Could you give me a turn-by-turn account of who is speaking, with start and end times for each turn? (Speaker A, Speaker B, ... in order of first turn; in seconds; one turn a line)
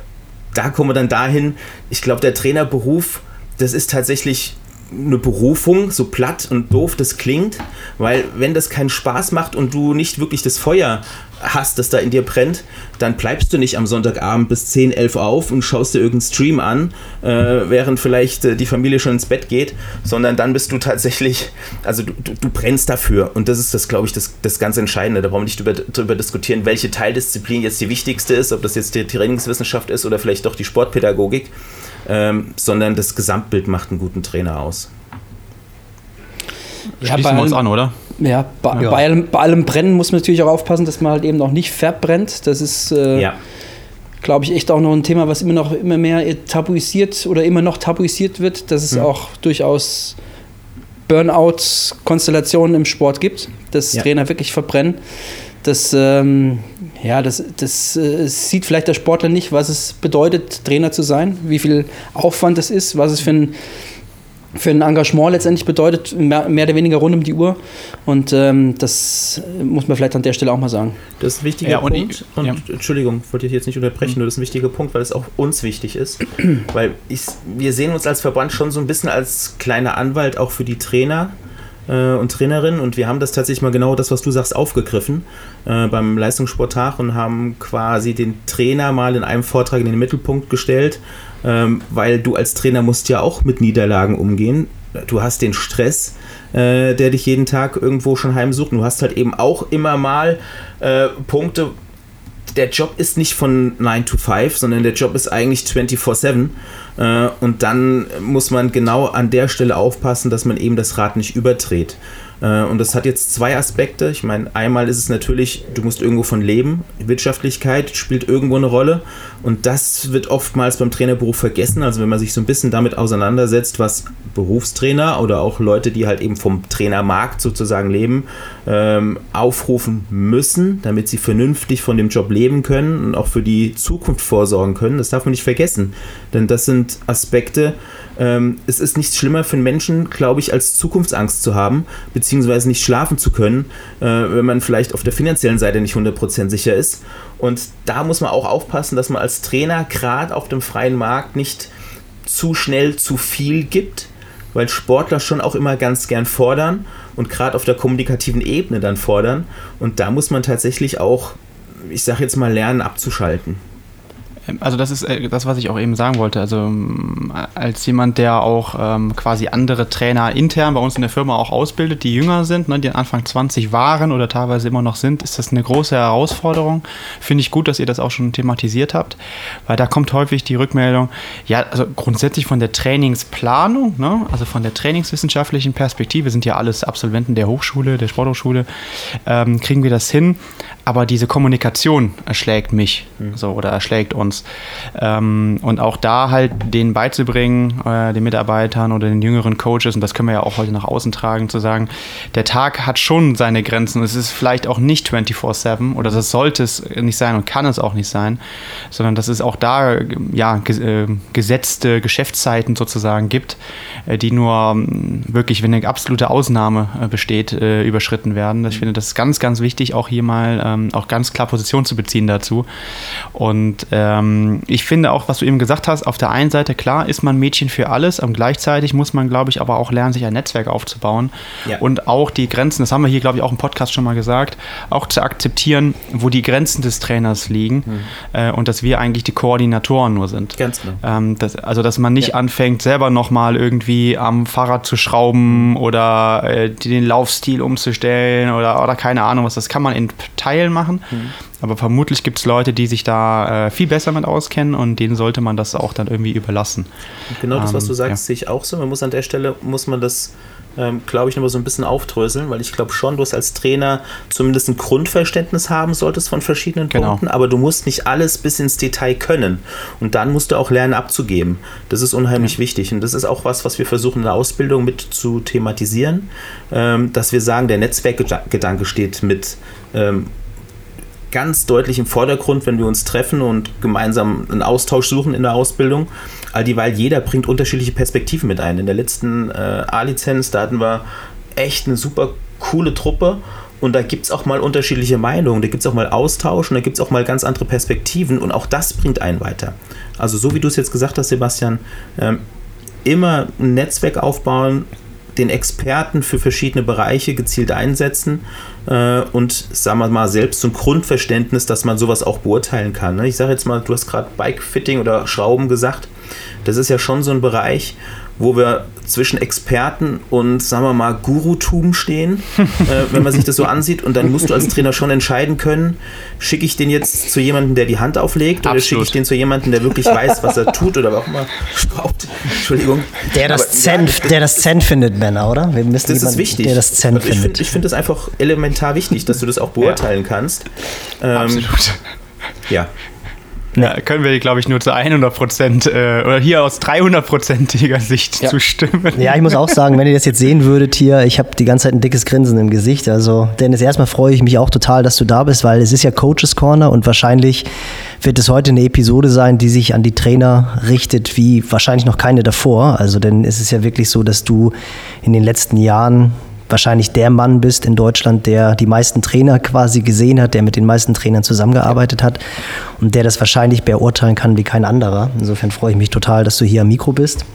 Speaker A: 0.5-31.5
Speaker A: 32.1-34.9
Speaker B: 37.0-37.6
Speaker C: 37.0-37.9
Speaker B: 38.2-43.3
Speaker B: 44.2-50.2
Speaker B: 51.1-55.0
Speaker B: 55.6-63.5
Speaker B: 64.5-71.0
Speaker A: 71.2-81.3
Speaker C: 71.6-72.6
Speaker A: 81.9-101.7
Speaker A: 102.5-151.7
Speaker A: 152.3-163.6
Speaker C: 164.5-188.7
Speaker C: 189.2-208.4
Speaker C: 208.9-222.7
Speaker C: 223.3-256.9
Speaker A: 240.6-241.0
Speaker A: 245.5-245.7
Speaker A: 257.3-280.3
Speaker C: 257.6-258.2
Speaker C: 266.9-267.2
Speaker A: 281.3-302.4
Speaker A: 303.1-316.1
Speaker A: 316.6-334.4
Speaker C: 328.6-329.1
Speaker D: 333.3-337.8
Speaker A: 336.1-340.7
Speaker A: 341.2-341.7
Speaker C: 341.4-342.0
Speaker C: 343.8-349.7
Speaker D: 349.1-357.7
Speaker D: 358.2-372.4
Speaker D: 373.0-377.4